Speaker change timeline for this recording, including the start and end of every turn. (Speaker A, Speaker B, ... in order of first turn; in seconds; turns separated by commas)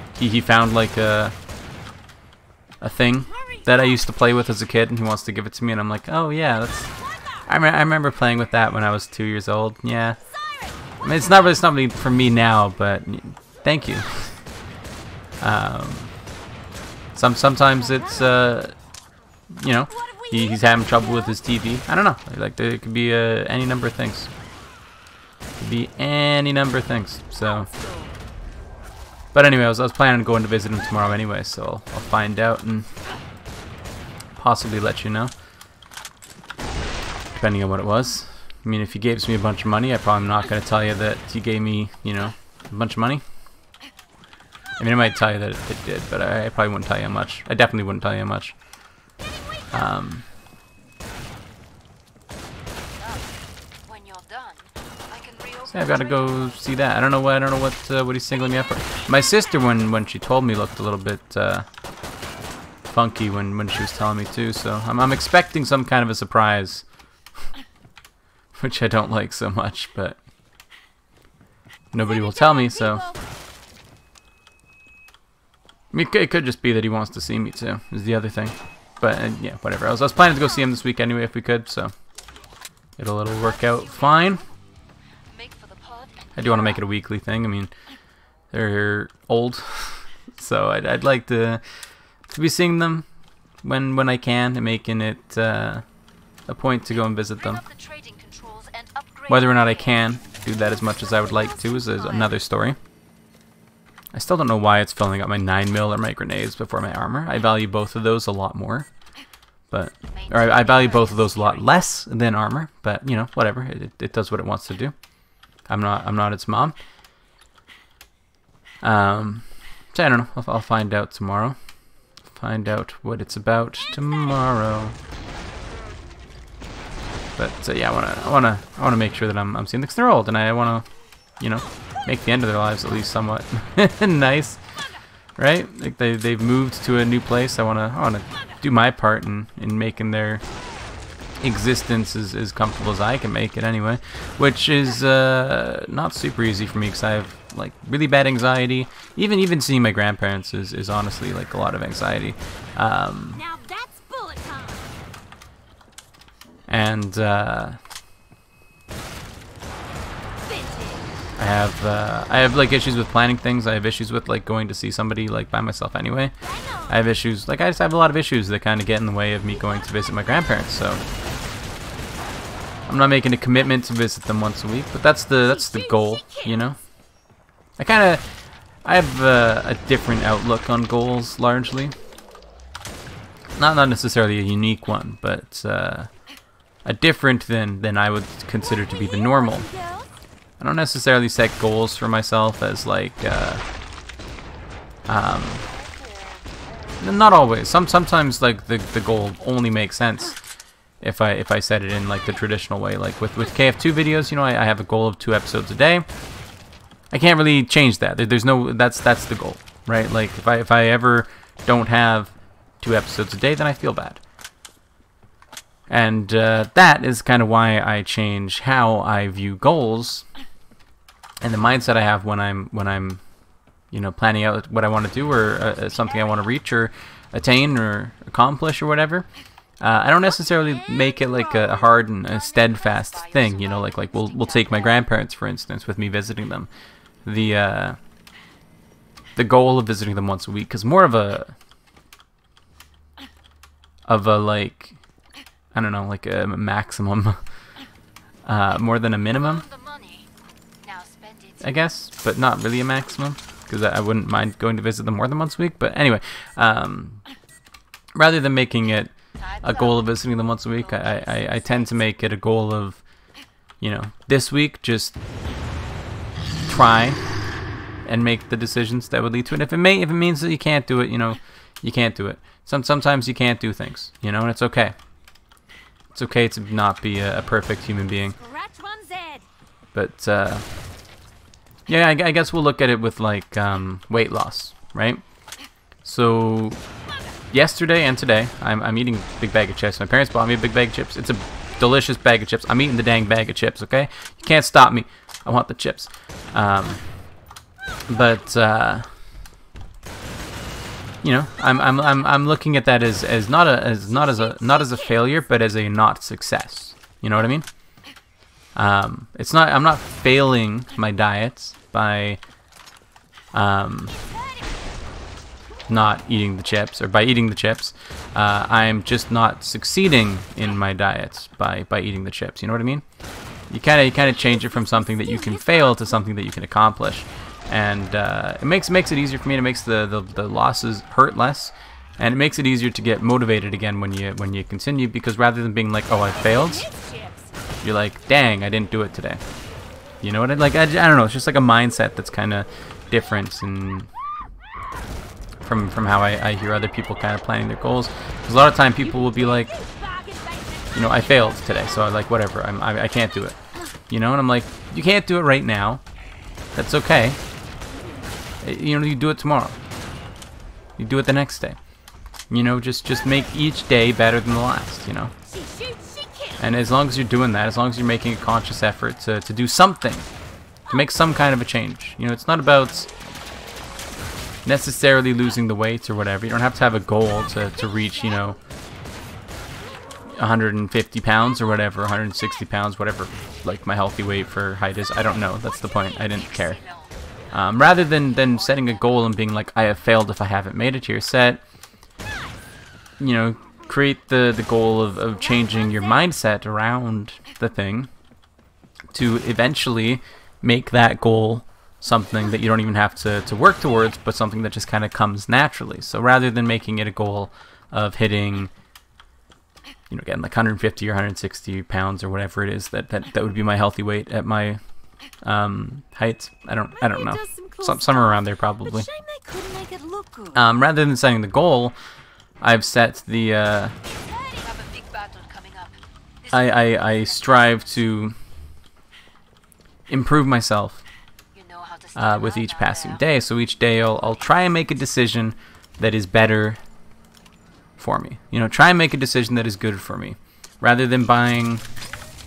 Speaker A: 0.1-1.4, Speaker A: 2.8-10.2, Speaker B: 3.3-4.0, Speaker B: 7.0-7.5, Speaker B: 10.3-11.0, Speaker A: 11.0-14.5, Speaker A: 15.4-16.1, Speaker A: 17.1-18.8, Speaker B: 17.9-18.3, Speaker A: 19.5-24.3, Speaker B: 19.9-21.4, Speaker A: 25.6-27.7, Speaker B: 27.4-28.1, Speaker A: 29.3-32.9, Speaker A: 34.4-35.3, Speaker A: 37.3-43.2, Speaker A: 44.8-48.5, Speaker A: 49.7-50.2, Speaker C: 52.9-53.3, Speaker C: 53.8-56.9, Speaker A: 55.7-61.6, Speaker A: 62.9-66.9, Speaker A: 68.5-70.2, Speaker A: 71.9-73.1, Speaker B: 72.0-73.2, Speaker A: 75.9-81.9, Speaker A: 83.0-84.4, Speaker C: 83.3-84.5, Speaker C: 85.3-86.8, Speaker A: 86.4-87.7, Speaker A: 88.5-93.1, Speaker A: 93.6-95.8, Speaker A: 96.5-97.6, Speaker C: 97.4-100.0, Speaker A: 99.3-102.8, Speaker B: 100.9-102.4, Speaker A: 104.1-108.9, Speaker A: 109.7-115.0, Speaker C: 110.0-111.9, Speaker A: 115.7-116.8, Speaker A: 118.8-121.6, Speaker A: 122.3-125.0, Speaker B: 124.0-124.5, Speaker A: 127.4-130.9, Speaker A: 131.4-134.6, Speaker A: 135.4-140.4, Speaker A: 141.4-153.4, Speaker B: 153.3-155.0, Speaker A: 156.7-157.8, Speaker B: 160.4-161.1, Speaker A: 161.4-166.3, Speaker B: 166.4-167.0, Speaker A: 166.9-171.0, Speaker A: 172.9-176.8, Speaker B: 175.4-176.7, Speaker A: 177.8-182.0, Speaker A: 183.6-186.1, Speaker A: 186.8-189.7, Speaker B: 188.6-190.1, Speaker A: 190.6-193.6, Speaker A: 195.1-195.7, Speaker A: 197.0-200.4, Speaker A: 201.0-206.1, Speaker A: 207.1-214.2, Speaker A: 215.9-220.3, Speaker A: 221.4-223.2, Speaker A: 223.9-229.3, Speaker C: 225.4-226.5, Speaker A: 229.8-236.7, Speaker C: 230.8-235.1, Speaker A: 237.2-238.0, Speaker A: 239.4-241.6, Speaker A: 244.1-244.9, Speaker A: 245.7-247.4, Speaker A: 248.4-249.6, Speaker C: 249.2-250.3, Speaker C: 250.8-251.9, Speaker A: 251.6-257.2, Speaker A: 258.1-263.0, Speaker C: 259.4-262.2, Speaker A: 263.8-265.1, Speaker A: 266.6-267.2, Speaker A: 268.1-275.0, Speaker A: 276.1-278.4, Speaker B: 278.3-279.4, Speaker A: 279.9-280.6, Speaker A: 281.9-285.2, Speaker A: 286.0-286.8, Speaker A: 287.5-297.2, Speaker A: 298.1-299.1, Speaker A: 301.2-307.7, Speaker B: 304.1-305.4, Speaker A: 308.7-312.4, Speaker A: 313.5-314.1, Speaker A: 315.9-323.1, Speaker A: 323.7-336.9, Speaker B: 324.4-326.2, Speaker B: 336.4-337.5, Speaker A: 337.8-339.4, Speaker A: 340.2-344.1, Speaker A: 345.6-349.7, Speaker B: 349.0-352.1, Speaker A: 350.9-353.6, Speaker A: 354.1-356.0, Speaker A: 356.7-357.4, Speaker A: 358.6-359.8, Speaker A: 361.0-361.8, Speaker A: 362.5-365.3, Speaker B: 365.4-366.7, Speaker A: 366.6-370.3, Speaker A: 370.9-373.1, Speaker A: 374.6-378.6, Speaker A: 380.4-386.8, Speaker C: 386.1-389.3, Speaker A: 387.5-391.6, Speaker A: 393.2-398.1, Speaker A: 399.1-408.7, Speaker A: 410.1-414.8, Speaker A: 415.4-419.1, Speaker B: 416.9-420.6, Speaker A: 420.5-421.9, Speaker A: 422.6-423.9, Speaker C: 424.1-428.2, Speaker A: 426.5-428.4, Speaker A: 430.1-431.1, Speaker C: 431.5-433.2, Speaker A: 432.1-436.8, Speaker A: 438.0-441.8